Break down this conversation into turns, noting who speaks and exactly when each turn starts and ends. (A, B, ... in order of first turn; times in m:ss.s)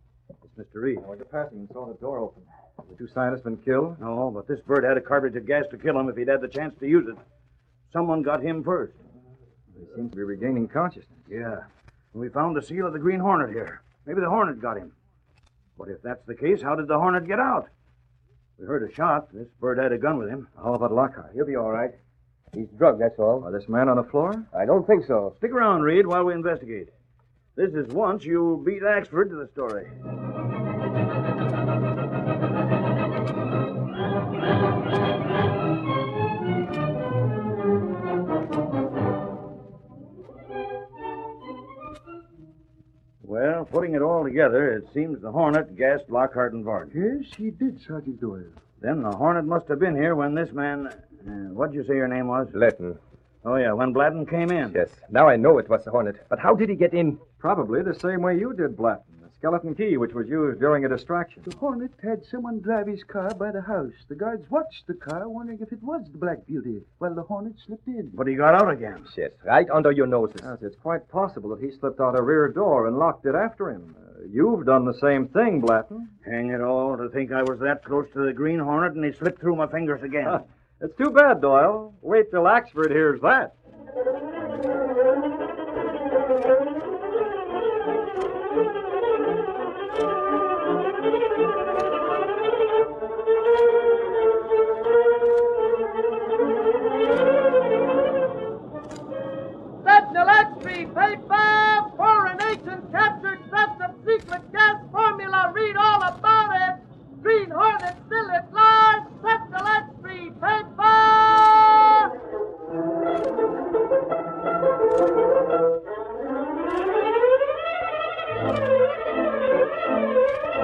0:00.4-0:01.0 A
0:01.0-0:04.0 B
0:04.0-0:07.2 A
0:07.9-0:09.0 A
0:09.7-0:11.3 B
0:11.3-0:14.9 A
0:15.8-0:17.7 A
0:18.6-0:20.5 A
0:20.6-0:21.8 B
0:21.3-0:21.9 C
0:22.5-0:23.5 C
0:23.4-0:24.5 B
0:24.5-0:25.4 C
0:25.4-0:26.9 A
0:27.6-0:29.9 A
0:43.2-0:46.9 A
0:46.9-0:48.6 D
0:48.8-0:52.5 A
0:52.5-0:53.0 C
0:53.4-0:54.8 A
0:54.6-0:57.2 C
0:57.4-1:01.5 B
1:01.4-1:08.2 D
1:08.1-1:09.1 A
1:09.0-1:10.5 C
1:10.4-1:16.1 B
1:16.2-1:20.4 A
1:20.2-1:23.5 B
1:39.9-1:44.4 E
1:45.2-1:46.2 E
1:47.2-1:48.9 E
1:49.4-1:51.2 E